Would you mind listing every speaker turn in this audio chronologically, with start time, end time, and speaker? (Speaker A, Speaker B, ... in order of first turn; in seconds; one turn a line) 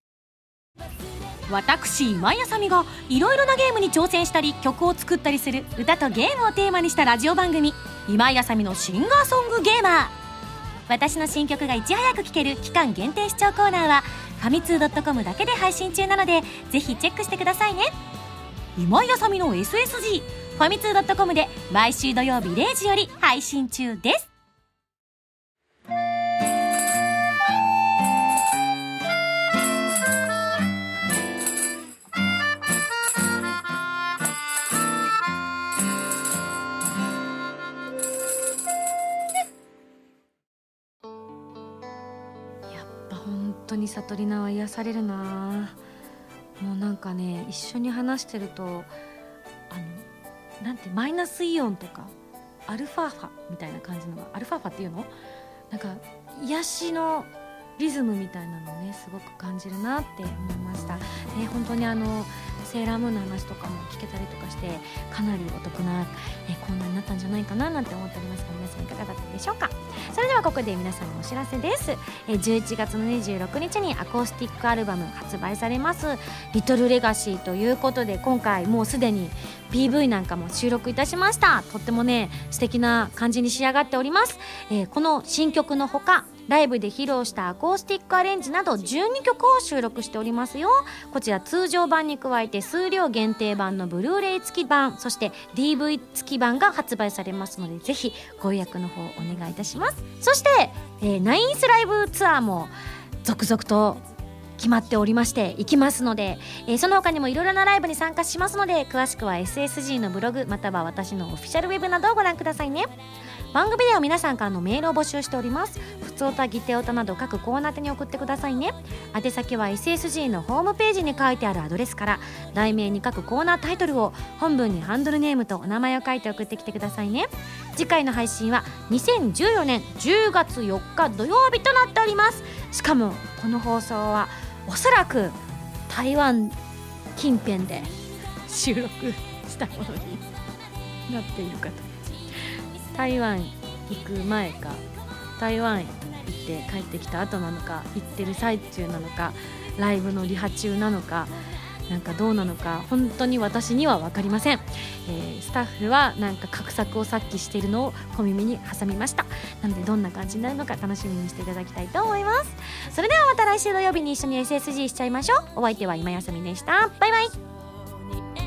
Speaker A: 1.5-10.1
Speaker A: 10.9-17.9
Speaker A: 18.8-24.3
Speaker A: 42.7-45.8
Speaker A: 46.6-48.9
Speaker A: 49.7-50.0
Speaker A: 50.6-52.1
Speaker A: 52.7-55.1
Speaker A: 55.7-102.7
Speaker A: 103.2-104.0
Speaker A: 104.6-112.9
Speaker A: 113.5-136.6
Speaker A: 137.2-137.9
Speaker A: 138.4-140.3
Speaker A: 141.1-141.9
Speaker A: 142.9-144.8
Speaker A: 145.4-151.3
Speaker A: 151.9-167.4